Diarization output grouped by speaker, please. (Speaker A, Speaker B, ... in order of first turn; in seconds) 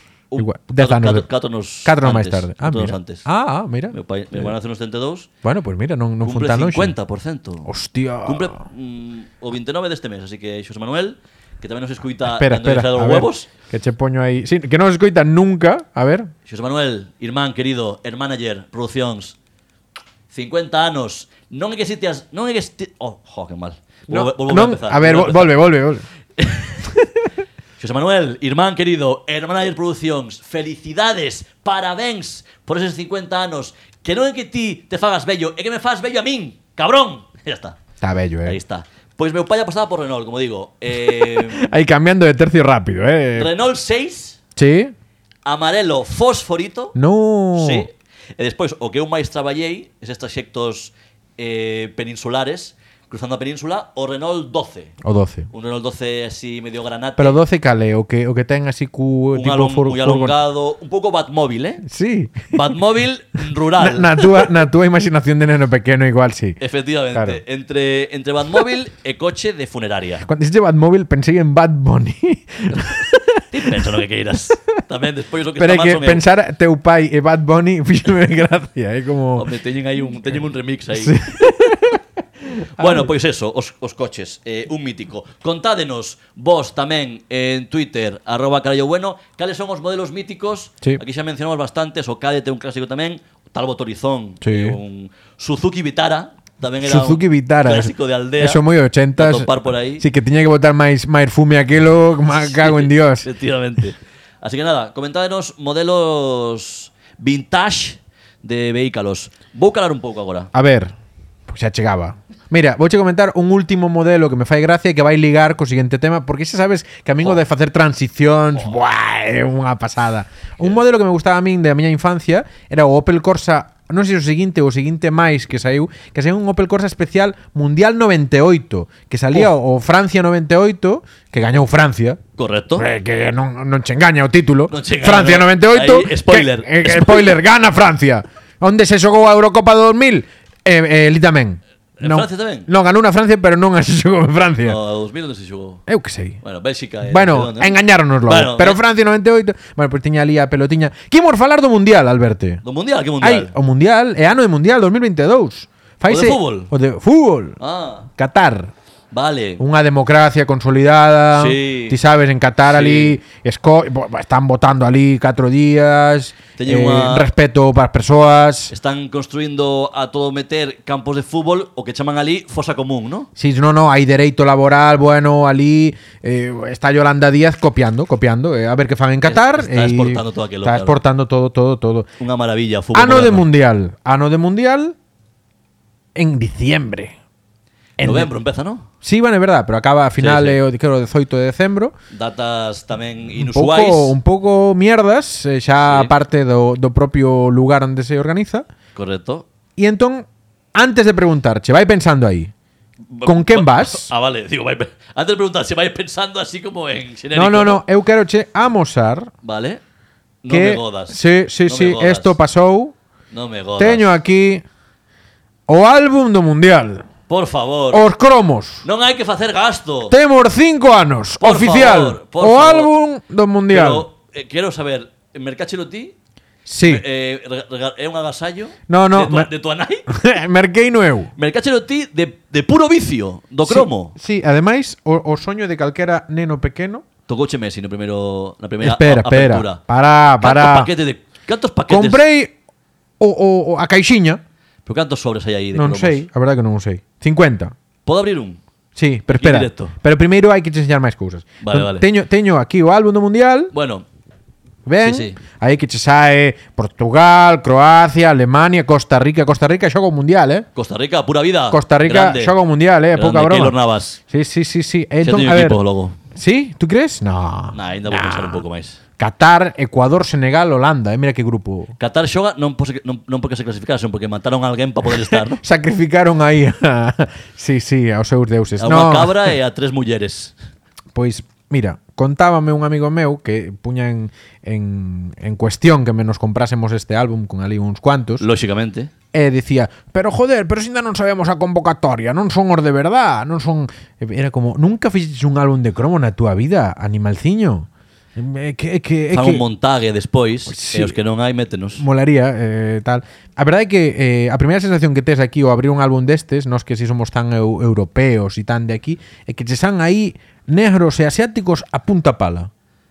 Speaker A: 0.3-3.2, 3.9-5.3, 6.2-7.7, 8.2-13.5, 16.4-19.3, 20.3-25.6, 26.4-26.8, 27.8-37.8, 38.4-41.7, 43.3-44.4, 45.4-46.9, 47.5-54.9, 55.5-57.4, 59.3-61.8, 62.5-64.5, 66.6-70.3, 73.5-76.2, 79.3-81.4, 82.8-98.6, 99.2-100.0, 102.4-110.5, 132.4-132.8, 134.7-137.4, 142.0-142.7, 144.6-145.8, 146.4-148.8, 152.6-153.5, 156.1-156.7, 157.6-158.1, 159.1-159.6, 161.3-162.0, 162.7-163.2, 166.6-167.3, 168.7-173.3, 179.2-181.0, 182.2-183.5, 188.0-188.9, 190.2-190.6, 192.1-194.2, 195.9-196.1, 198.9-199.5, 203.1-207.8, 209.4-209.8, 210.4-212.3, 213.3-214.1, 217.3-218.0, 218.8-220.1, 221.4-222.9, 223.7-226.1, 226.8-230.0, 231.3-234.1, 237.3-239.8, 240.4-242.2, 244.8-246.2, 248.1-248.6, 249.3-249.9, 251.6-252.1, 253.7-254.0, 255.0-255.4, 260.7-262.5, 263.1-264.2, 265.2-266.2, 267.7-269.0, 272.0-275.6, 278.8-280.5, 288.4-289.1, 299.3-302.0
Speaker B: 0.4-1.3, 1.8-4.5, 5.4-6.9, 7.6-8.6, 12.3-16.3, 24.1-26.0, 38.0-38.6, 41.1-43.5, 44.5-44.9, 46.9-47.9, 55.0-55.5, 57.2-60.4, 61.8-62.5, 63.8-66.6, 67.1-67.4, 70.2-73.9, 75.6-79.5, 81.0-82.0, 82.5-83.1, 94.4-94.8, 96.8-103.3, 110.5-110.9, 111.5-132.2, 132.8-144.8, 145.9-146.4, 147.0-152.6, 153.2-157.6, 158.2-158.7, 159.6-168.7, 173.3-182.1, 182.9-184.9, 186.1-187.1, 188.0-188.3, 189.0-191.9, 193.4-198.7, 199.8-202.5, 203.2-204.1, 207.3-209.3, 210.5-212.9, 213.8-214.6, 215.7-217.0, 217.9-218.8, 220.1-224.1, 226.7-227.0, 228.9-229.5, 230.1-231.3, 233.6-237.0, 238.8-240.9, 241.9-242.5, 243.2-244.4, 245.7-247.7, 248.9-253.7, 254.8-260.6, 261.7-263.7, 264.3-265.8, 266.3-268.6, 269.2-271.9, 275.3-279.5, 281.1-288.4, 289.3-299.6, 300.7-301.1, 302.0-312.7